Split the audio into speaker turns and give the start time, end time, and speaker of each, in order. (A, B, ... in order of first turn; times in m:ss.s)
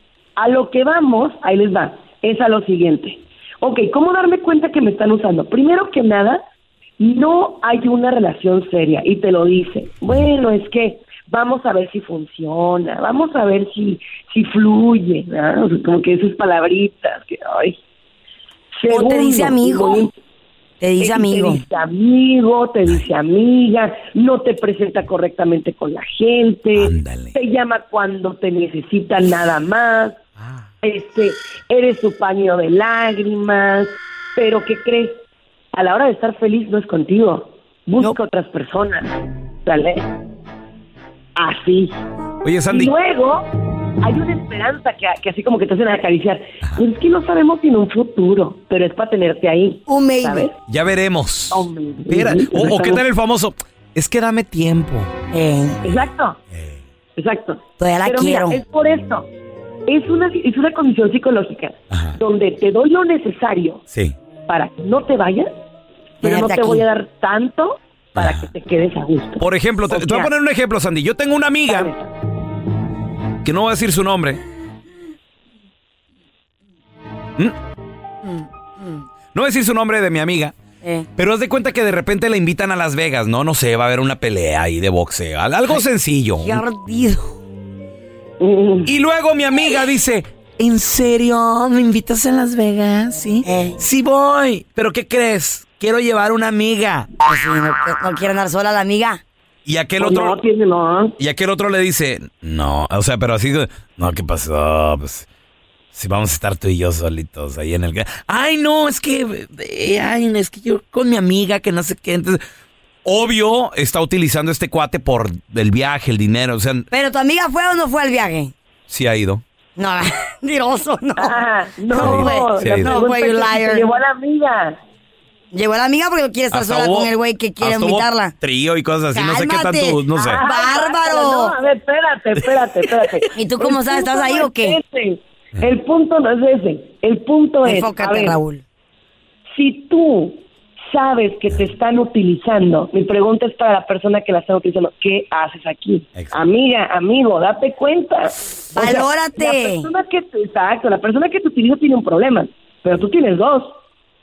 0:00.4-0:06.4 A
0:07.0-0:17.8 A
0:18.8-0:20.1 A
0:18.9-0:20.1 B
0:20.8-0:21.6 B
0:21.0-0:30.2 A
0:26.7-0:27.4 C
0:30.8-0:35.2 A
0:35.7-0:40.0 A
0:41.4-0:42.0 A
0:42.4-0:42.9 C
0:42.7-0:43.4 A
0:44.0-0:50.6 A
0:49.9-0:50.5 B
0:50.7-0:55.1 C
0:51.5-0:53.0 A
0:55.3-0:55.9 B
0:55.8-0:56.4 A
0:56.5-0:56.8 C
0:57.2-0:59.3 A
0:57.8-0:58.6 B
0:59.9-1:03.8 A
1:01.9-1:02.2 C
1:03.9-1:04.2 C
1:04.5-1:05.5 A
1:06.2-1:10.3 A
1:06.2-1:06.9 B
1:08.2-1:08.5 C
1:09.4-1:11.9 C
1:11.7-1:12.1 A
1:13.4-1:14.4 C
1:19.3-1:20.5 C
1:20.8-1:21.1 B
1:21.2-1:26.6 C
1:26.4-1:27.4 B
1:28.4-1:28.9 A
1:28.8-1:37.1 C
1:33.4-1:33.8 B
1:37.2-1:39.2 B
1:39.6-1:40.4 C
1:40.0-1:41.1 A
1:41.2-1:45.2 C
1:45.9-1:52.4 C
1:53.0-1:56.9 C
1:56.9-1:58.5 B
1:58.9-1:59.4 C
1:59.8-2:03.9 B
2:01.2-2:04.8 A
2:01.9-2:03.0 C
2:05.5-2:08.3 B
2:06.5-2:10.4 C
2:09.1-2:11.6 B
2:10.2-2:18.4 A
2:13.3-2:14.8 B
2:17.6-2:18.6 B
2:19.5-2:20.4 A
2:20.9-2:33.7 A
2:28.7-2:29.9 B